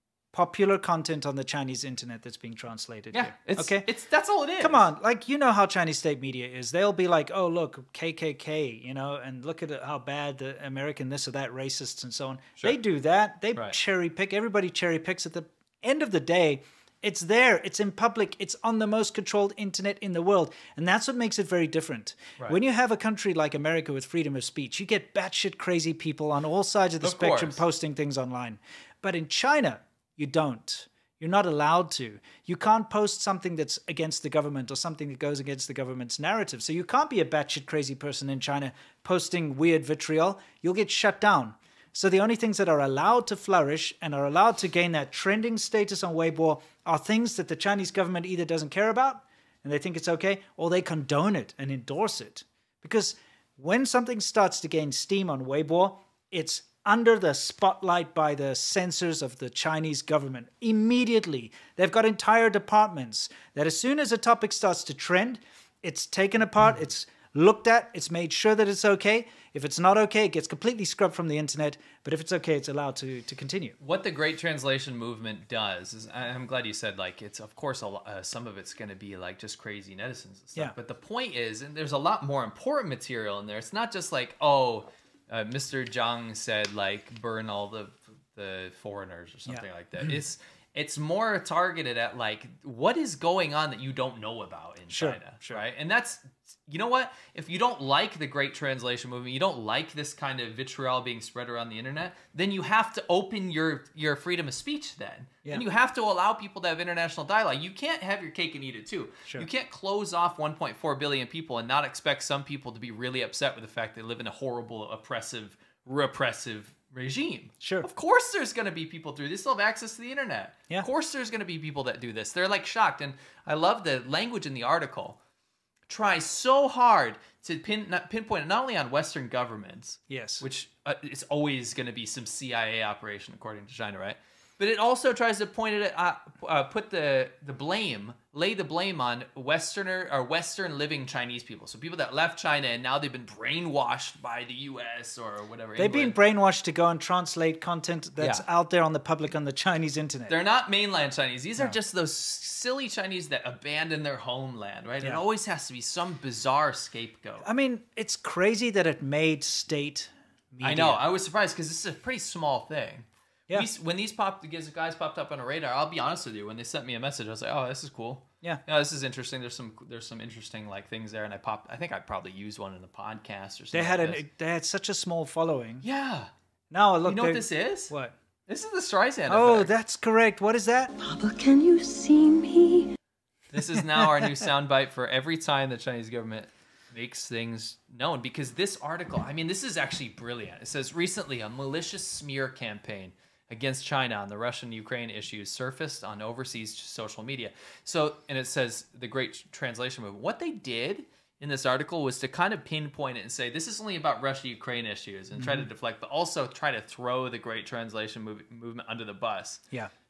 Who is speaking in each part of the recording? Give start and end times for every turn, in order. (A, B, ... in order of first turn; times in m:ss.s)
0:00.3-0:03.9 A
0:03.1-0:04.9 B
0:04.6-1:13.8 A
0:27.0-0:27.6 B
1:13.8-2:05.2 B
1:34.9-1:35.6 A
1:57.6-1:57.9 A
2:05.9-2:26.1 B
2:10.1-2:10.4 A
2:25.8-2:30.4 A
2:28.2-2:28.4 B
2:30.3-2:37.4 B
2:37.4-2:41.0 A
2:40.6-2:54.2 B
2:53.7-2:55.8 A
2:55.8-2:56.3 B
2:56.7-2:58.1 A
2:57.0-2:57.9 B
2:58.5-2:59.7 B
2:59.3-3:00.9 A
3:01.0-3:02.9 C
3:03.5-3:29.6 B
3:03.7-3:04.4 A
3:25.4-3:25.7 A